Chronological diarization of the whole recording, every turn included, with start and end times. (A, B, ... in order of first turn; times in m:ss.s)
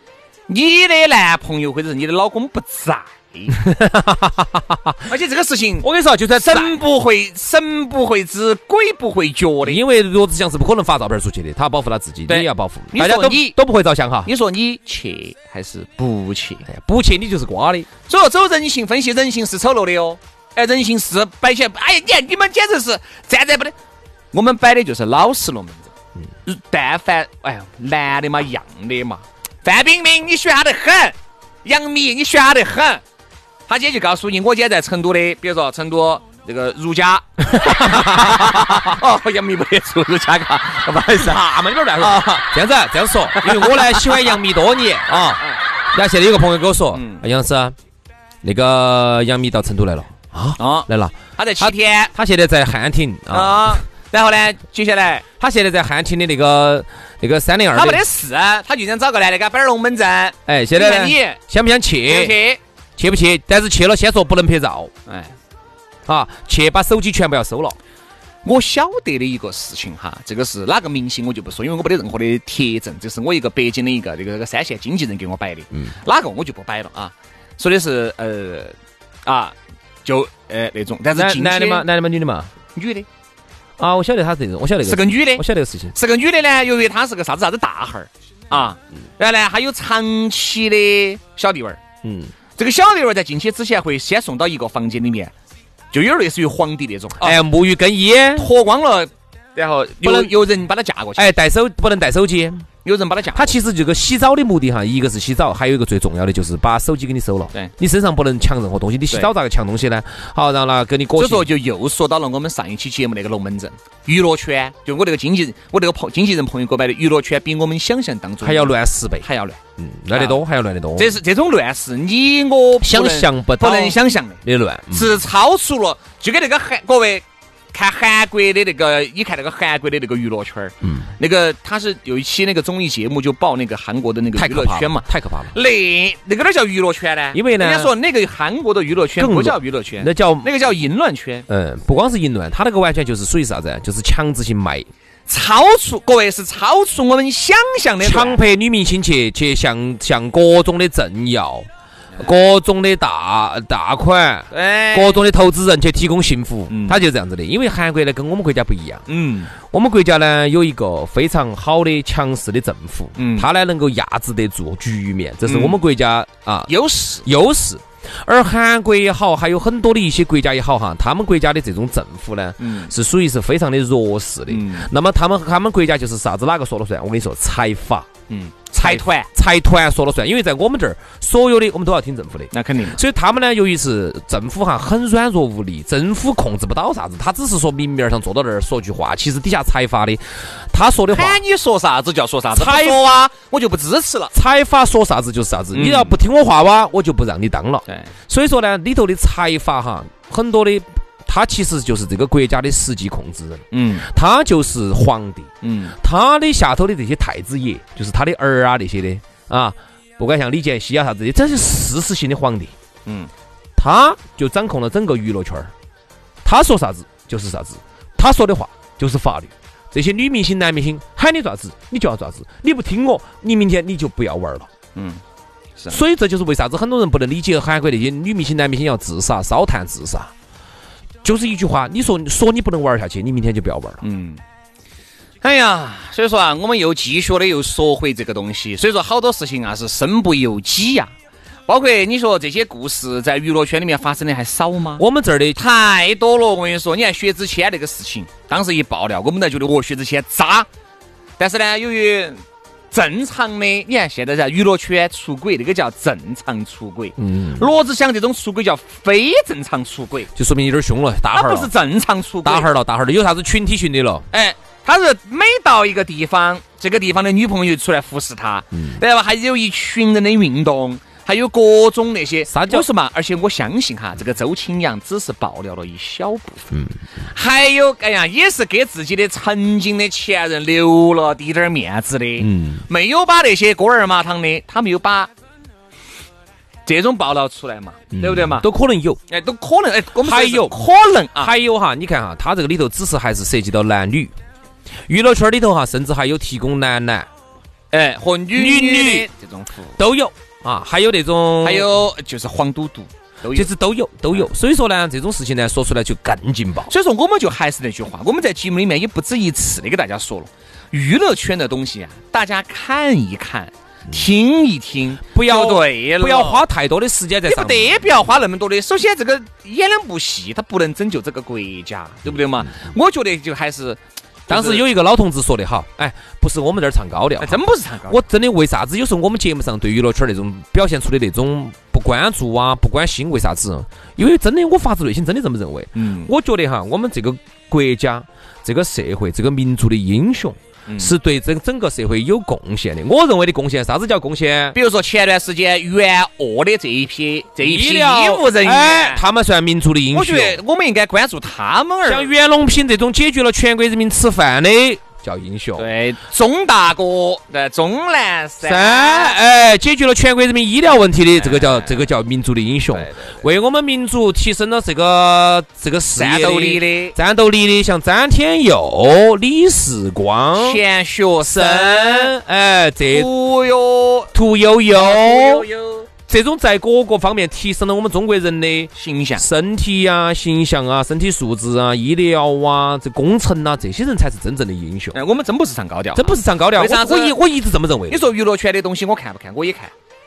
0:00.5-0:03.6 A
0:03.5-0:05.0 B
0:05.1-0:09.8 A
0:05.8-0:06.8 B
0:09.6-0:14.3 B
0:12.3-0:13.6 A
0:14.2-0:16.7 A
0:16.7-0:17.9 B
0:18.1-0:23.7 A
0:24.3-0:25.9 A
0:26.4-0:33.0 A
0:33.7-0:42.4 A
0:37.5-0:38.9 B
0:41.1-0:47.7 B
0:43.3-0:44.3 A
0:45.1-0:45.6 A
0:46.9-0:47.2 A
0:48.4-0:53.8 B
0:50.6-0:52.1 A
0:53.3-0:55.2 A
0:55.4-0:58.0 B
0:57.7-1:01.4 A
1:00.4-1:02.4 B
1:02.1-1:02.6 A
1:03.0-1:04.9 B
1:05.1-1:05.3 A
1:06.1-1:07.8 B
1:08.4-1:18.7 A
1:19.2-1:21.8 A
1:21.1-1:22.5 B
1:22.7-1:23.1 A
1:23.8-1:25.9 B
1:24.8-1:31.8 A
1:32.0-1:32.3 B
1:32.6-1:35.3 A
1:35.9-1:37.4 A
1:37.2-1:38.5 B
1:38.4-1:41.3 A
1:40.0-1:40.3 B
1:41.2-1:42.7 B
1:42.8-1:43.5 A
1:43.3-1:51.5 B
1:51.2-1:59.6 A
1:58.4-1:59.3 B
1:59.8-2:01.2 B
2:00.1-2:00.4 A
2:01.0-2:21.4 A
2:02.8-2:05.2 B
2:10.8-2:11.1 B
2:14.4-2:15.5 B
2:17.3-2:17.9 B
2:19.2-2:20.5 B
2:21.5-2:24.9 B
2:25.3-2:28.4 A
2:28.0-2:31.7 B
2:32.2-2:46.7 B
2:34.5-2:35.2 A
2:36.7-2:37.0 A
2:39.1-2:39.5 A
2:43.2-2:43.5 A
2:45.4-2:45.8 A
2:46.7-2:47.3 A
2:47.2-2:58.1 B
2:52.6-2:52.9 A
2:54.5-2:54.9 A
2:58.3-2:59.3 A
2:58.8-3:11.4 B
3:02.5-3:03.0 A
3:11.1-3:14.3 A
3:12.5-3:13.0 B
3:14.3-3:32.7 B
3:15.7-3:16.2 A
3:23.7-3:24.0 A
3:25.6-3:26.0 A
3:33.8-3:35.7 B
3:36.4-3:44.7 B
3:44.9-3:45.2 A
3:45.9-3:50.3 B
3:51.2-3:54.0 B
3:54.0-3:54.4 A
3:55.4-4:01.1 A
4:01.7-4:05.0 A
4:05.0-4:05.6 B
4:05.6-4:10.7 A
4:11.4-4:12.4 A
4:12.9-4:20.3 A
4:17.2-4:17.6 B
4:20.3-4:21.7 B
4:21.3-4:22.7 A
4:22.4-4:24.3 B
4:24.3-4:36.7 A
4:28.7-4:29.0 B
4:32.5-4:32.9 B
4:37.3-4:45.3 A
4:42.4-4:42.8 B
4:46.8-4:48.6 A
4:48.1-4:49.2 B
4:49.3-4:51.5 A
4:50.2-4:50.8 B
4:51.4-4:54.3 B
4:55.1-4:57.3 B
4:57.9-5:00.0 A
4:58.5-4:59.3 B
5:00.0-5:01.9 B
5:01.6-5:03.7 A
5:03.5-5:06.9 B
5:06.9-5:16.6 A
5:15.3-5:18.0 B
5:17.4-5:24.8 A
5:24.5-5:44.8 B
5:27.4-5:28.2 A
5:35.9-5:36.3 A
5:40.9-5:41.1 A
5:44.7-5:49.2 A
5:47.6-5:50.6 B
5:50.1-5:52.3 A
5:52.0-5:55.9 B
5:55.8-5:59.4 A
5:58.6-6:10.8 B
6:01.4-6:02.0 A
6:02.9-6:03.4 A
6:06.1-6:07.2 A
6:10.6-6:12.3 A
6:11.4-6:13.3 B
6:13.1-6:14.3 A
6:14.3-6:15.7 B
6:14.9-6:16.1 A
6:16.3-6:25.2 B
6:19.0-6:19.4 A
6:25.1-6:27.4 A
6:26.2-6:28.3 B
6:28.1-6:29.9 A